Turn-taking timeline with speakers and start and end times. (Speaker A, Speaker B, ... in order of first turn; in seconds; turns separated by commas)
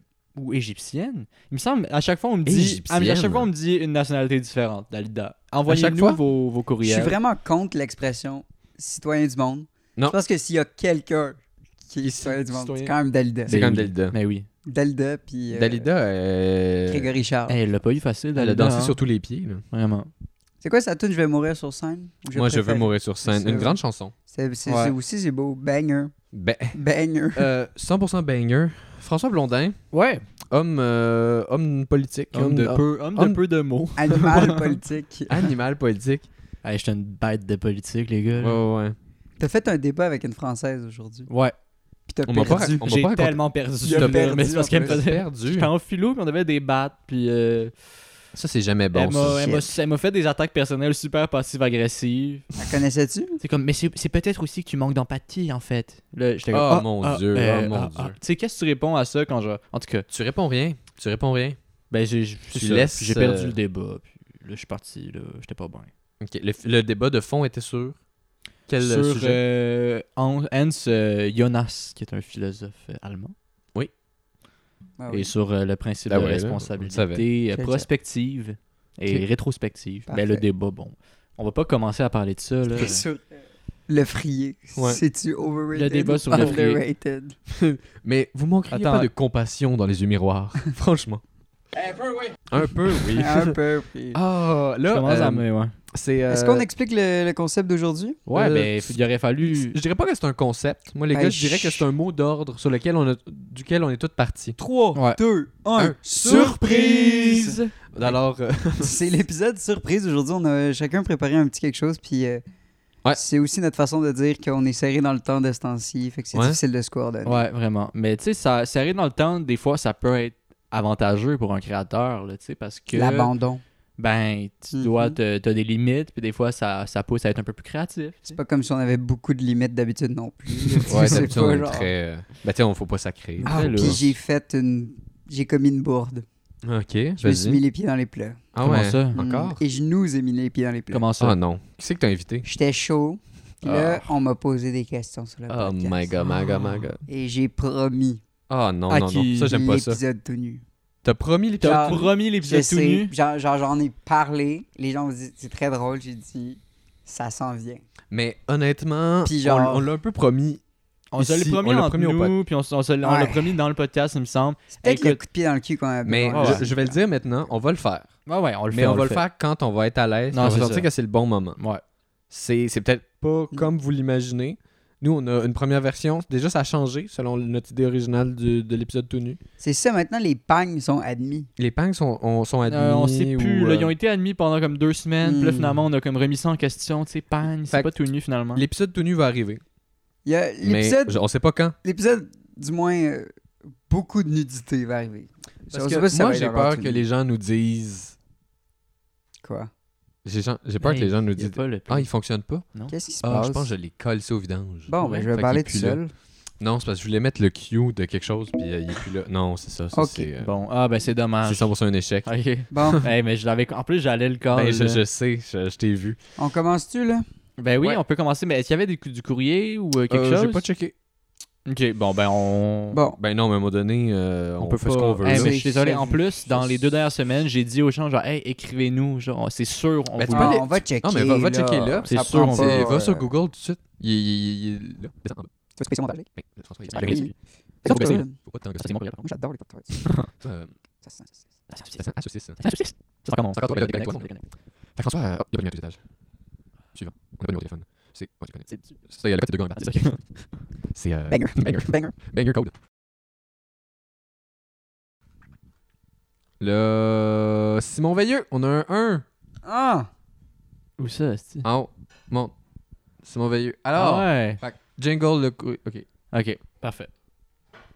Speaker A: 0.4-7.2, Speaker B: 2.5-3.5, Speaker B: 5.7-6.2, Speaker C: 6.8-13.6, Speaker B: 12.0-12.9, Speaker B: 13.5-14.1, Speaker A: 13.5-14.5, Speaker C: 14.7-15.9, Speaker B: 15.5-17.1, Speaker C: 16.9-17.6, Speaker A: 17.5-19.0, Speaker B: 18.4-19.6, Speaker A: 19.7-20.1, Speaker C: 20.6-23.8, Speaker B: 22.3-24.1, Speaker C: 24.3-26.1, Speaker A: 24.7-24.9, Speaker B: 26.3-26.8, Speaker C: 26.7-27.5, Speaker B: 27.4-29.8, Speaker A: 29.9-30.2, Speaker B: 30.5-33.4, Speaker A: 32.3-34.8, Speaker C: 34.0-35.5, Speaker B: 35.3-36.3, Speaker A: 36.6-38.6, Speaker B: 38.4-39.0, Speaker C: 39.4-41.3, Speaker A: 41.3-41.5, Speaker C: 42.1-42.9, Speaker B: 42.3-45.7, Speaker A: 42.6-47.7, Speaker C: 43.9-45.0, Speaker B: 48.3-49.5, Speaker A: 48.9-52.5, Speaker C: 49.4-49.7, Speaker C: 52.6-53.4, Speaker A: 53.4-60.1, Speaker B: 56.5-58.2, Speaker B: 60.1-61.6, Speaker A: 61.9-65.9, Speaker B: 62.5-63.6, Speaker B: 66.2-68.0, Speaker B: 68.7-69.4, Speaker A: 68.8-73.3, Speaker C: 75.0-75.3, Speaker A: 75.1-83.0, Speaker B: 76.1-77.2, Speaker C: 77.5-77.9, Speaker C: 80.1-80.4, Speaker C: 82.7-83.3, Speaker C: 83.9-87.3, Speaker A: 85.7-86.8, Speaker B: 87.5-91.2, Speaker A: 88.7-89.1, Speaker B: 92.5-93.6, Speaker C: 93.1-94.2, Speaker B: 94.1-96.7, Speaker A: 94.9-95.7, Speaker C: 96.3-98.2, Speaker A: 98.3-99.8, Speaker B: 98.3-98.9, Speaker B: 99.5-104.6, Speaker C: 101.1-101.9, Speaker C: 104.6-107.6, Speaker A: 104.9-105.2, Speaker B: 105.8-106.6, Speaker A: 106.0-107.7, Speaker B: 107.9-109.0, Speaker C: 108.8-112.4, Speaker C: 113.1-117.4, Speaker B: 116.3-116.6, Speaker A: 117.2-123.3, Speaker C: 122.9-123.6, Speaker A: 124.0-128.3, Speaker C: 124.7-125.2, Speaker C: 128.3-131.9, Speaker A: 130.7-131.2, Speaker B: 130.9-134.1, Speaker A: 133.4-134.0, Speaker C: 133.4-136.2, Speaker B: 136.6-137.6, Speaker C: 137.2-138.4, Speaker B: 138.5-139.6, Speaker A: 138.6-139.2, Speaker C: 139.2-141.1, Speaker A: 140.9-141.4, Speaker B: 141.2-142.4, Speaker C: 142.4-146.1, Speaker B: 143.6-144.1, Speaker B: 145.5-147.0, Speaker C: 147.1-148.2, Speaker B: 148.5-150.0, Speaker A: 148.9-149.5, Speaker C: 149.4-150.6, Speaker B: 151.0-152.1, Speaker A: 151.6-153.1, Speaker C: 151.6-157.8, Speaker B: 158.1-160.6, Speaker C: 159.2-159.9, Speaker A: 161.1-165.2, Speaker B: 161.2-162.4, Speaker C: 163.0-163.6, Speaker C: 164.7-167.0, Speaker B: 166.1-168.1, Speaker A: 166.3-166.6, Speaker A: 168.3-169.2, Speaker B: 168.7-171.6, Speaker A: 170.3-170.9, Speaker A: 171.6-171.8, Speaker B: 172.3-179.4, Speaker C: 179.6-181.5, Speaker B: 181.6-183.9, Speaker A: 182.7-188.7, Speaker C: 185.2-185.8, Speaker B: 188.5-189.6, Speaker C: 190.2-191.2, Speaker B: 190.6-191.8, Speaker C: 191.8-193.3, Speaker C: 193.9-197.1, Speaker B: 195.7-198.2, Speaker C: 199.4-199.7, Speaker B: 200.2-202.7, Speaker A: 200.8-202.1, Speaker C: 202.9-203.7, Speaker B: 203.2-206.0, Speaker C: 204.9-206.1, Speaker B: 206.6-210.5, Speaker C: 209.9-210.3, Speaker A: 210.4-211.7, Speaker B: 211.4-212.3, Speaker A: 212.2-215.0, Speaker C: 212.7-213.0, Speaker B: 214.5-216.2, Speaker C: 216.4-217.2, Speaker A: 217.6-220.7, Speaker B: 220.1-220.9, Speaker A: 221.7-223.0, Speaker C: 222.9-223.2, Speaker B: 223.2-225.6, Speaker A: 224.6-230.7, Speaker C: 225.3-226.8, Speaker B: 230.2-235.5, Speaker C: 230.3-233.3, Speaker A: 232.1-232.9, Speaker C: 235.8-236.3, Speaker B: 236.4-237.3, Speaker C: 236.9-237.3, Speaker C: 237.8-238.4, Speaker B: 237.8-239.2, Speaker A: 237.9-238.1, Speaker C: 239.0-240.1, Speaker B: 240.3-240.7, Speaker C: 241.0-241.8, Speaker B: 241.9-242.8, Speaker A: 242.6-244.4, Speaker B: 243.3-244.3, Speaker B: 245.0-246.0, Speaker B: 246.9-250.2, Speaker B: 250.9-252.7, Speaker C: 251.3-252.1, Speaker B: 256.6-259.2, Speaker C: 259.6-260.1, Speaker A: 261.0-261.6, Speaker B: 261.6-262.5, Speaker B: 263.2-266.1, Speaker A: 264.0-264.6, Speaker A: 266.3-267.1